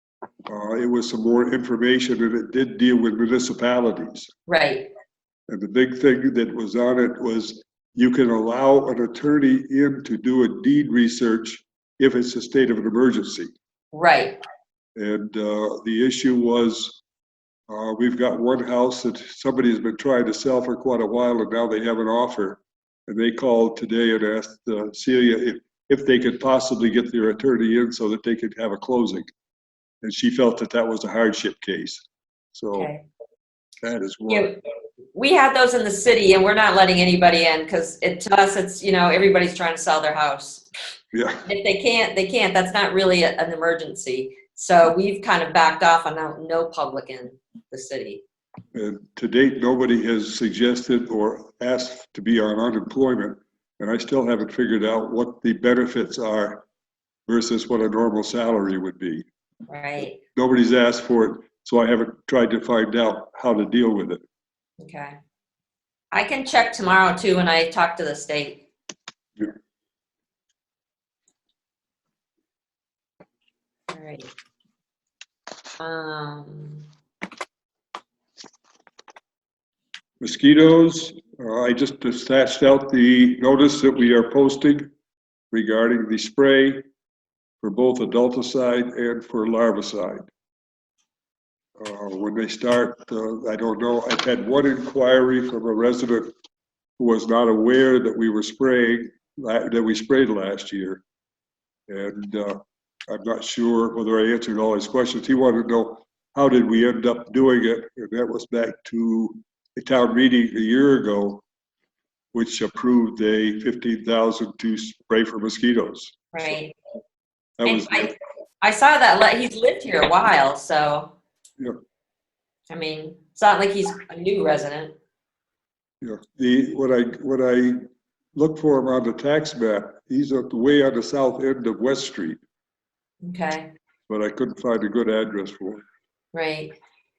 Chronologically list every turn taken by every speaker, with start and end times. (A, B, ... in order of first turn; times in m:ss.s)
0:00.5-0:04.3 A
0:04.5-0:04.9 B
0:05.5-0:13.5 A
0:13.9-0:14.4 B
0:15.0-0:17.0 A
0:17.7-0:29.3 A
0:30.0-0:32.0 A
0:32.5-0:32.9 A
0:32.7-0:33.0 B
0:33.8-0:34.5 A
0:34.3-0:34.6 B
0:35.1-0:40.6 B
0:41.1-0:41.4 A
0:41.4-0:48.2 B
0:48.7-0:56.6 A
0:57.3-0:59.2 A
0:59.7-1:00.2 B
1:00.4-1:04.2 A
1:04.8-1:05.2 B
1:06.1-1:08.6 B
1:13.9-1:14.3 B
1:15.8-1:16.8 B
1:20.2-1:24.9 A
1:25.5-1:26.8 A
1:27.6-1:30.2 A
1:31.8-1:36.3 A
1:37.0-1:41.0 A
1:41.9-1:51.4 A
1:52.3-1:56.2 A
1:56.3-1:56.7 B
1:57.6-1:58.1 A
1:57.6-2:01.1 B
2:02.7-2:05.0 B
2:06.0-2:07.8 A
2:08.3-2:12.4 A
2:13.2-2:13.7 B
2:14.1-2:15.8 A
2:16.3-2:16.7 B